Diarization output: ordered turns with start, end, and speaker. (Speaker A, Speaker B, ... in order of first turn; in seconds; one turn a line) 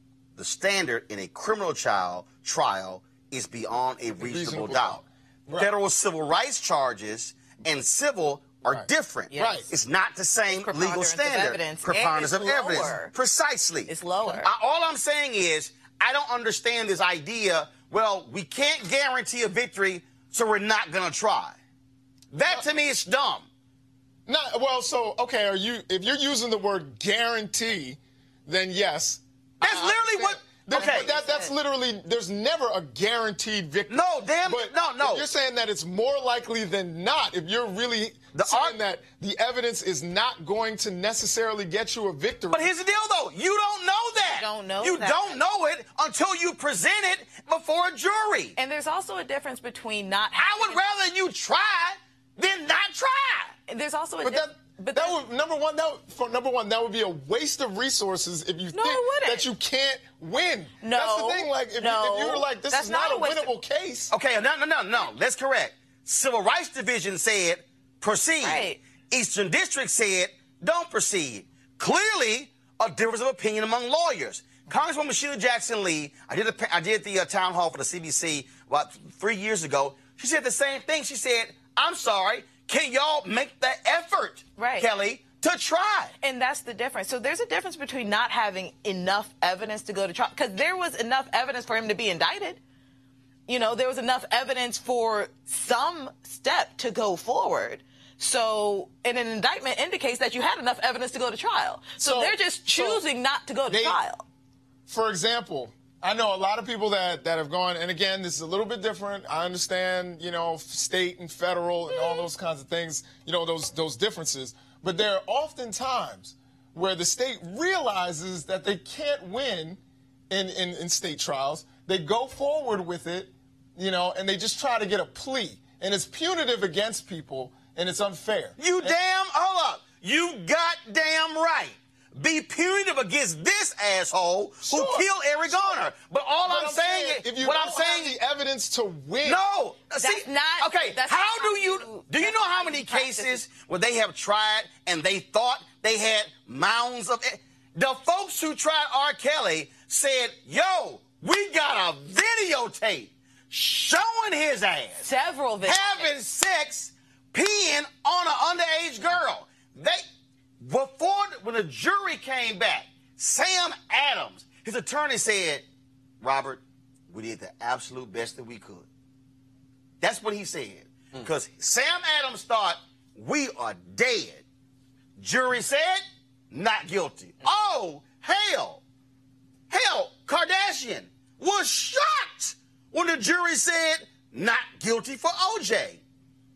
Speaker A: 0.4-5.0
Speaker B: 4.2-5.7
Speaker A: 5.5-21.6
Speaker B: 8.7-9.7
Speaker C: 9.3-9.7
Speaker C: 10.5-13.1
Speaker C: 13.9-14.5
Speaker A: 22.3-23.5
Speaker B: 24.3-42.7
Speaker A: 29.6-31.3
Speaker C: 30.7-31.5
Speaker A: 33.9-35.2
Speaker A: 38.3-38.8
Speaker A: 42.5-48.6
Speaker C: 44.2-45.4
Speaker C: 48.6-50.8
Speaker A: 50.3-53.5
Speaker C: 53.7-55.2
Speaker B: 54.2-64.1
Speaker C: 58.7-59.5
Speaker C: 60.8-63.5
Speaker A: 64.1-86.1
Speaker C: 68.4-68.8
Speaker C: 84.6-84.9
Speaker C: 86.2-92.6
Speaker C: 93.5-104.2
Speaker B: 102.0-103.0
Speaker B: 103.7-104.0
Speaker B: 104.9-128.9
Speaker C: 111.9-112.2
Speaker A: 128.6-138.2
Speaker B: 134.6-135.9
Speaker B: 136.4-139.4
Speaker A: 139.2-155.1
Speaker C: 140.0-143.4
Speaker C: 155.0-156.1
Speaker A: 155.6-160.0
Speaker A: 160.6-165.7
Speaker A: 166.2-168.9
Speaker A: 170.0-174.4
Speaker A: 175.2-178.8
Speaker A: 179.7-186.0